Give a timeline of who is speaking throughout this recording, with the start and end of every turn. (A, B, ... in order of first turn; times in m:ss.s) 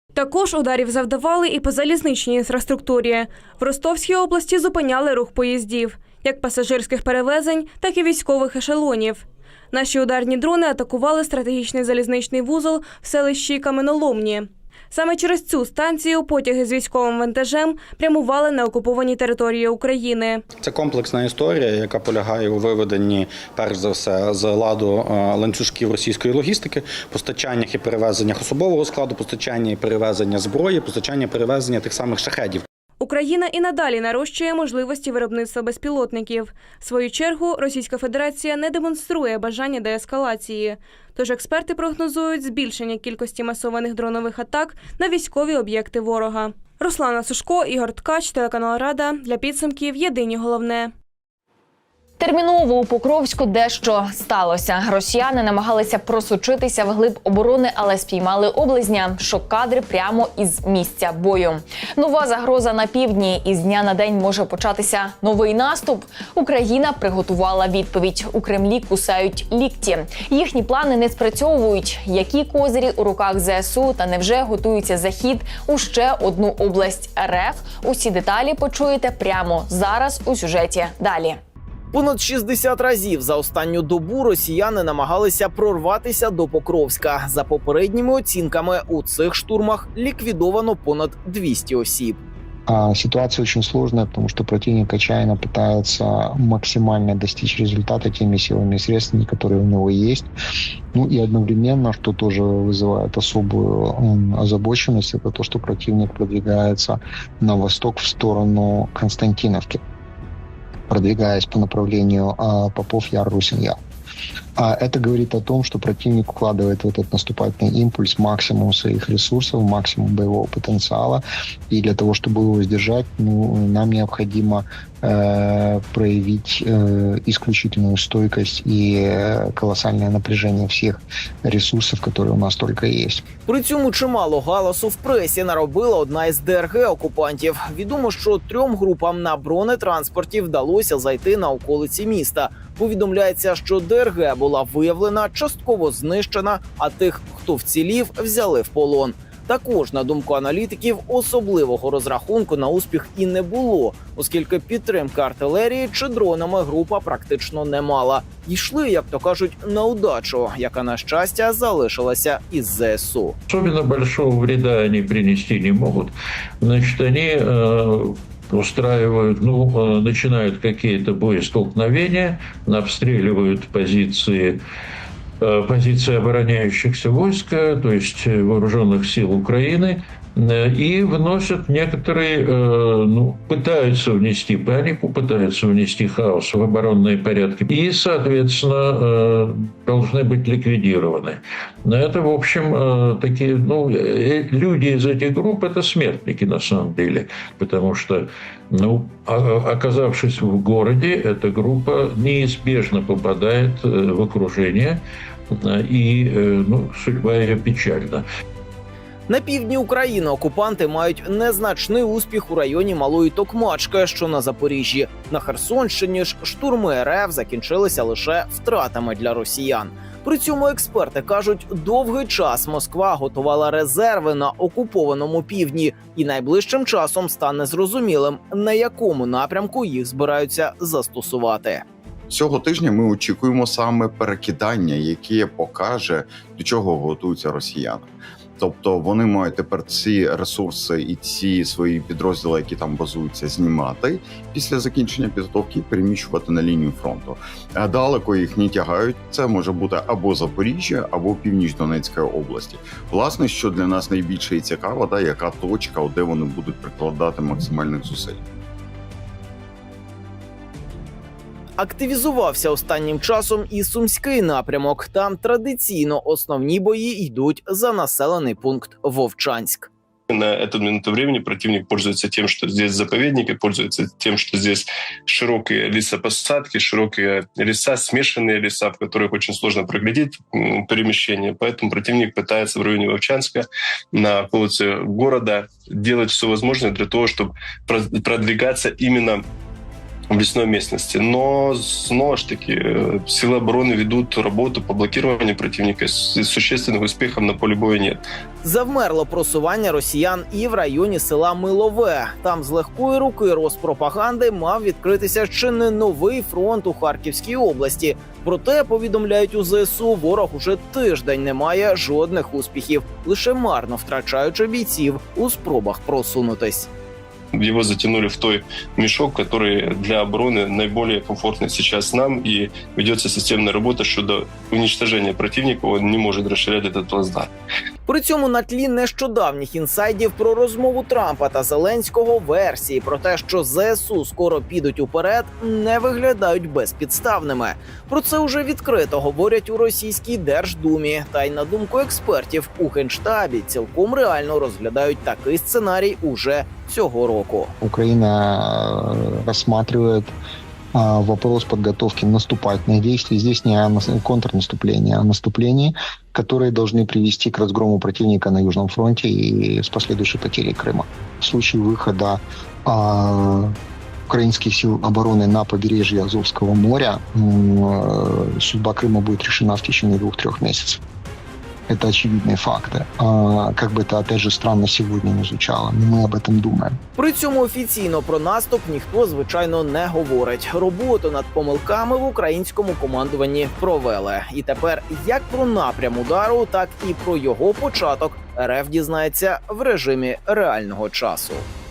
0:00.1-0:20.4 A
0:20.6-0:32.6 B
0:33.0-0:50.9 A
0:52.2-1:21.4 C
1:21.9-1:32.2 D
1:32.7-1:40.3 E
1:40.9-1:49.8 E
1:50.9-1:53.8 E
1:54.6-2:13.2 E
2:13.5-2:43.4 D
2:43.5-2:54.6 F
2:55.4-3:28.2 F
3:29.3-3:51.8 D
3:52.3-4:18.4 G
4:21.8-4:29.9 D
4:30.3-4:49.4 H
4:50.3-4:58.2 H
4:58.6-5:16.9 D
5:17.5-5:27.5 H
5:28.1-5:47.7 D
5:47.8-5:50.3 E
5:50.9-6:03.8 E
6:04.3-6:11.0 E
6:11.9-6:17.0 E
6:17.2-6:31.6 D